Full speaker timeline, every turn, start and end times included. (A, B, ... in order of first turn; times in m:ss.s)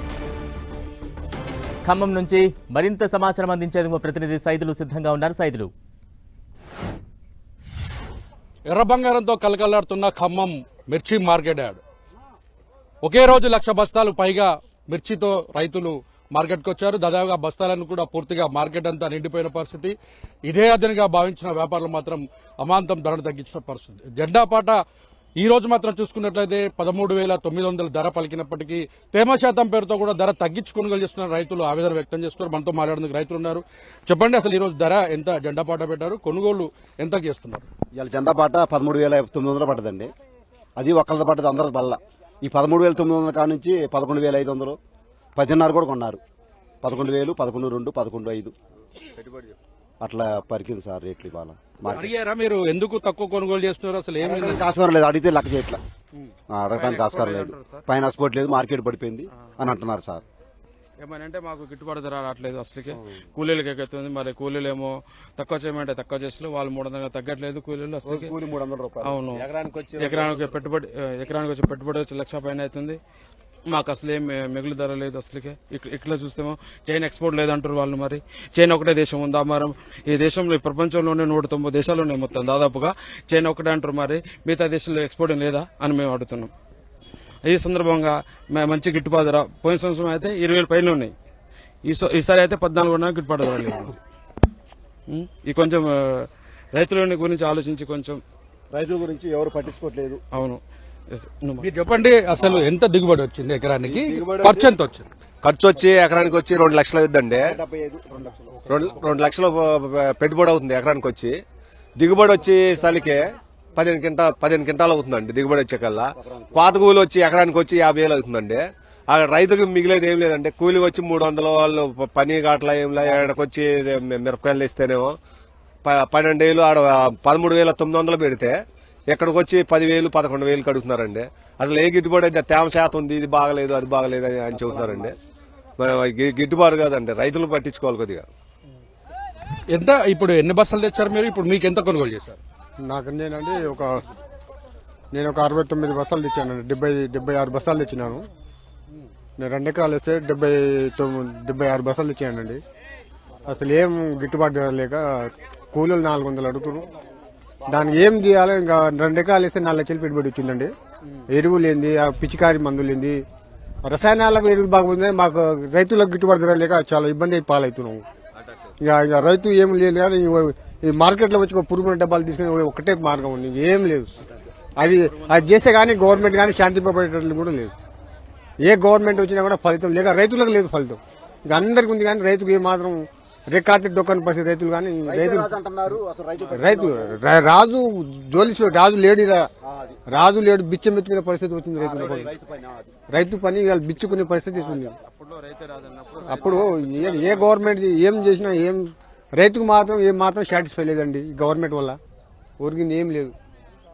0:01.9-0:05.7 A
0:08.7-0:11.8 B
0:13.0-0:20.0 B
0:20.5-0:24.8 B
0:25.4-0:37.7 B
0:38.0-0:40.1 C
0:40.8-0:44.8 C
0:45.4-0:46.2 C
0:46.8-0:48.5 C
0:49.2-0:49.6 D
0:50.0-0:52.1 C
0:52.0-0:54.6 B
0:54.2-0:55.8 C
0:56.2-0:57.9 E
0:56.5-1:00.2 C
1:01.0-1:08.3 E
1:08.0-1:09.2 C
1:09.0-1:09.4 E
1:09.3-1:10.6 D
1:10.0-1:13.0 E
1:13.7-1:26.5 E
1:27.4-1:31.2 E
1:31.8-1:34.0 E
1:35.1-1:38.2 E
1:38.7-1:40.2 C
1:40.3-1:41.7 E
1:41.6-1:45.1 B
1:43.8-1:44.7 D
1:45.4-1:47.6 D
1:47.4-1:48.9 C
1:48.7-1:51.4 D
1:52.0-2:05.2 D
1:56.2-1:56.6 C
2:05.8-2:08.6 D
2:09.1-2:15.2 D
2:14.5-2:15.1 C
2:15.8-2:18.3 D
2:19.7-2:22.4 B
2:22.8-2:23.9 F
2:25.1-2:28.2 F
2:29.4-2:32.6 F
2:33.5-2:36.9 F
2:37.7-2:40.7 F
2:41.3-2:43.2 F
2:43.8-2:48.0 F
2:48.4-2:48.7 D
2:48.8-2:54.2 F
2:54.8-2:57.7 F
2:55.3-2:55.7 E
2:58.6-3:05.5 F
3:05.0-3:07.2 C
3:06.4-3:06.6 E
3:06.5-3:09.5 F
3:09.6-3:10.2 C
3:10.1-3:12.3 F
3:11.8-3:13.0 C
3:13.1-3:15.0 F
3:14.6-3:17.7 E
3:16.3-3:22.0 F
3:22.6-3:23.3 F